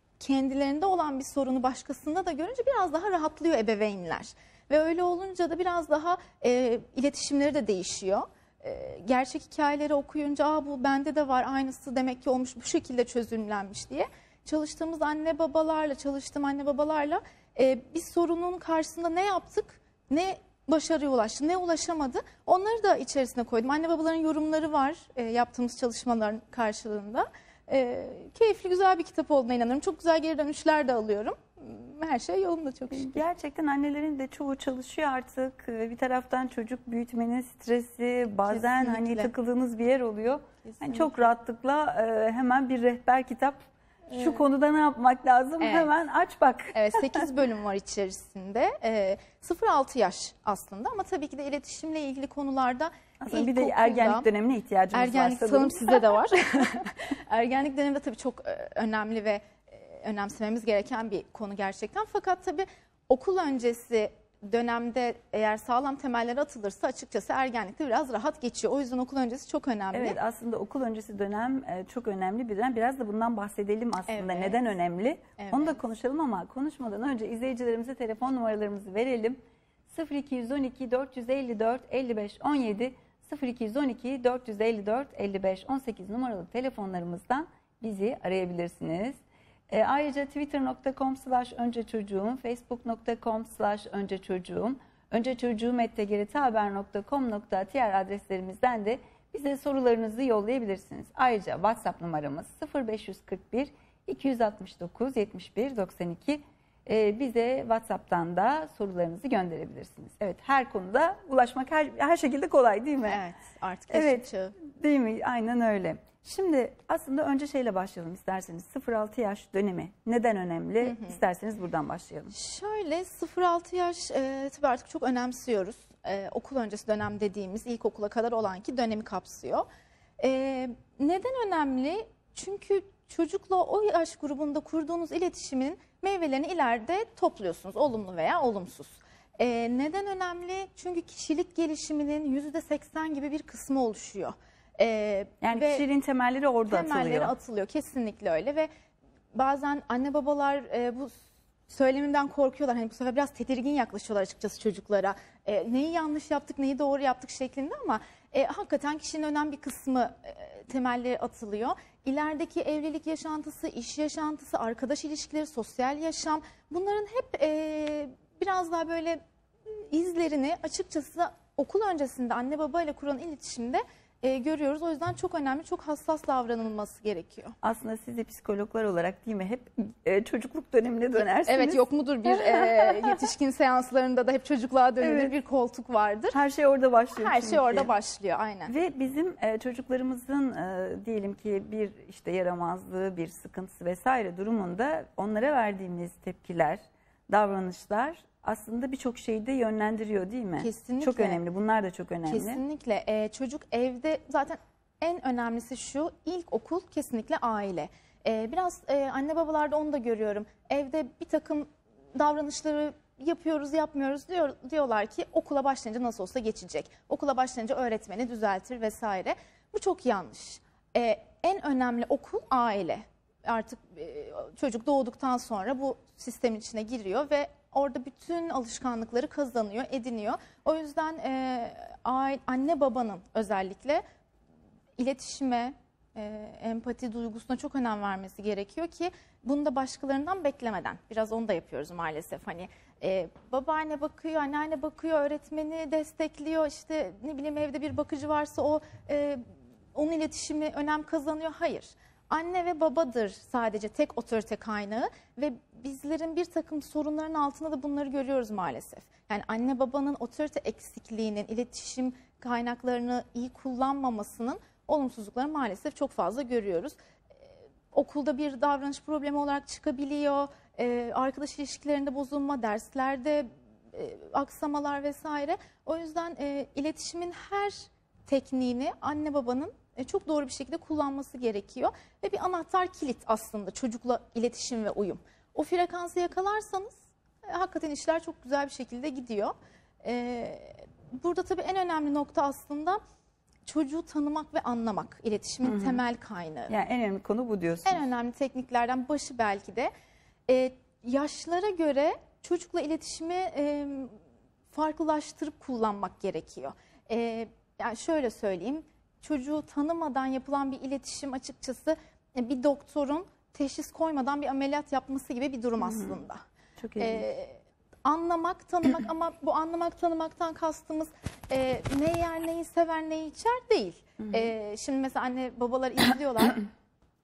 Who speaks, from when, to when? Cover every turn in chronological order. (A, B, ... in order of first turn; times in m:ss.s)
0:00.2-0:33.2 A
0:32.9-0:43.6 B
0:38.5-0:39.3 A
0:40.6-0:41.2 A
0:44.1-0:44.4 A
0:44.1-0:47.2 B
0:45.6-0:45.9 A
0:46.7-0:54.2 A
0:53.2-0:56.1 B
0:54.9-1:10.2 A
1:09.9-1:29.2 B
1:14.1-1:14.6 A
1:15.4-1:15.8 A
1:29.7-1:53.2 B
1:53.0-1:54.5 A
1:53.9-2:02.3 B
2:00.8-2:01.2 A
2:02.3-2:09.6 A
2:10.2-2:25.8 A
2:25.4-2:27.3 B
2:26.7-2:28.7 A
2:29.3-2:31.1 A
2:31.7-2:49.2 A
2:49.7-2:57.5 A
2:57.6-3:03.0 B
3:01.4-3:06.4 A
3:05.0-3:05.3 B
3:06.3-3:07.9 B
3:07.2-3:08.7 A
3:08.7-3:22.6 B
3:20.6-3:21.4 A
3:22.3-3:54.0 A
3:55.0-4:09.4 A
4:09.9-4:27.0 A
4:27.9-4:53.0 A
4:53.6-4:56.7 A
4:55.6-4:56.0 B
4:56.7-4:58.0 B
4:57.8-4:59.9 A
5:00.5-5:04.2 A
5:04.7-5:16.4 A
5:15.8-5:16.2 B
5:16.8-5:17.2 B
5:17.0-5:26.6 A
5:24.2-5:24.5 B